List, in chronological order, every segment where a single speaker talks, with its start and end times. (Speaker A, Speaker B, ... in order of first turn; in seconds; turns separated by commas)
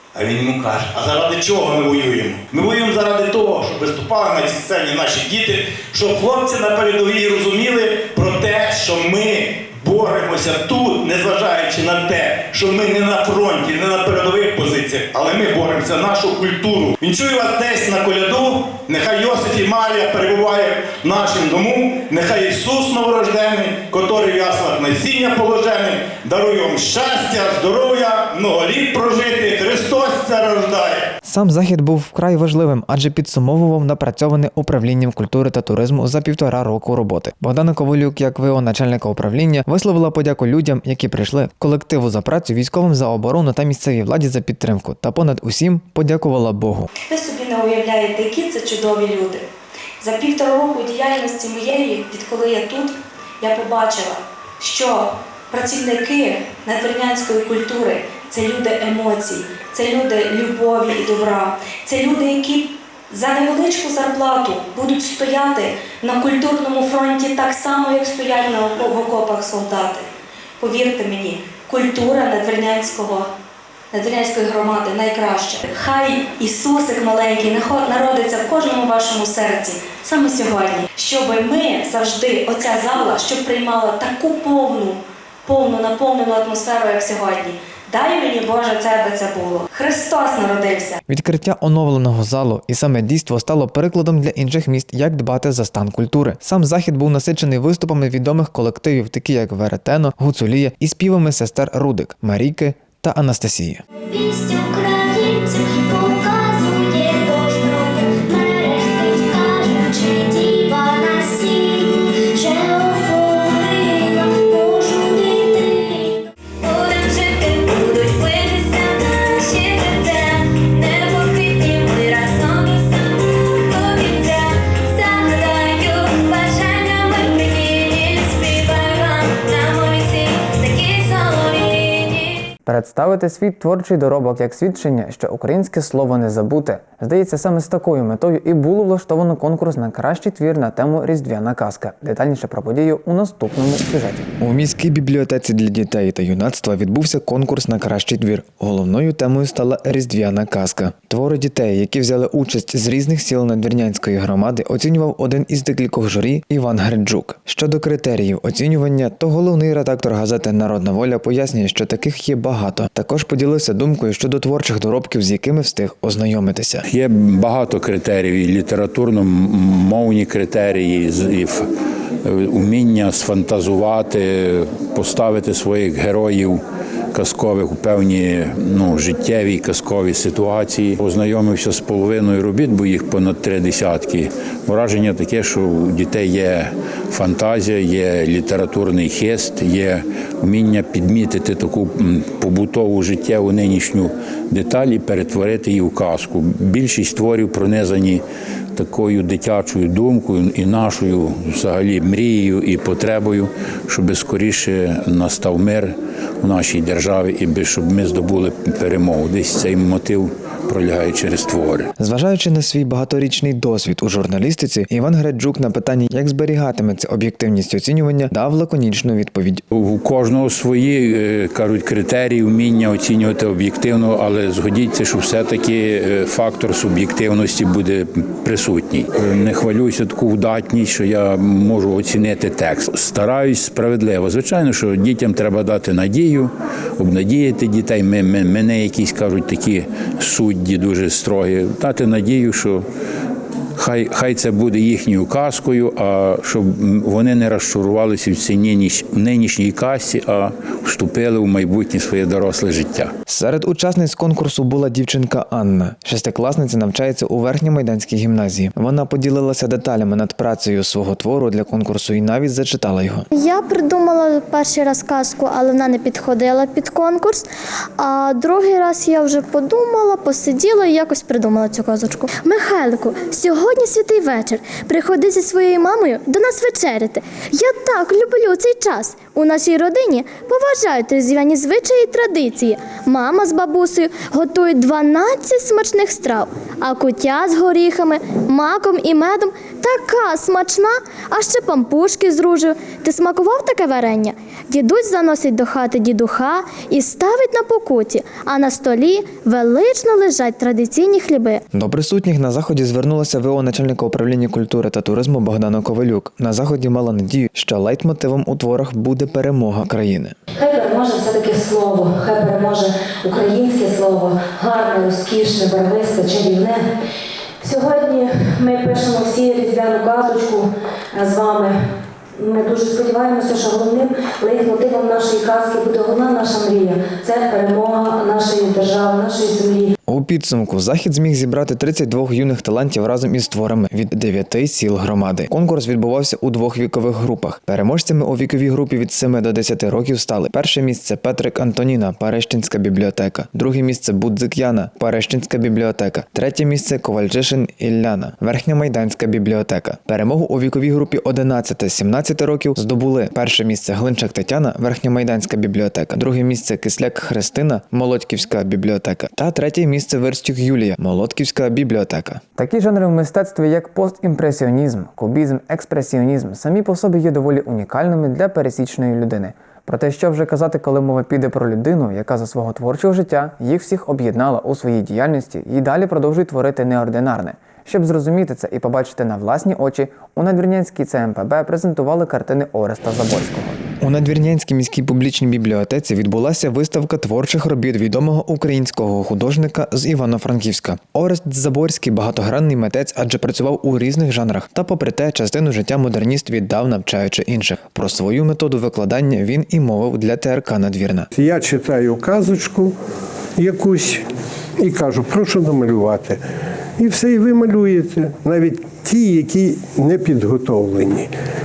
Speaker A: 0.1-31.1, Speaker B: 31.2-46.9, Speaker C: 47.1-49.4, Speaker C: 50.0-70.0, Speaker C: 70.6-73.3, Speaker C: 73.9-91.0, Speaker B: 91.1-103.8, Speaker C: 104.1-132.3, Speaker B: 132.7-166.8, Speaker D: 166.9-171.7, Speaker D: 172.2-176.6, Speaker D: 177.1-198.2, Speaker D: 198.8-211.9, Speaker B: 212.0-219.6, Speaker D: 219.7-242.8, Speaker D: 243.8-253.1, Speaker B: 253.3-263.3, Speaker E: 263.3-267.5, Speaker E: 268.0-301.6, Speaker B: 301.7-310.3, Speaker F: 310.6-316.9, Speaker F: 317.6-321.8, Speaker F: 322.4-329.9, Speaker B: 330.1-401.3, Speaker G: 401.3-402.9, Speaker G: 403.6-404.2, Speaker G: 404.8-406.4, Speaker G: 407.0-411.3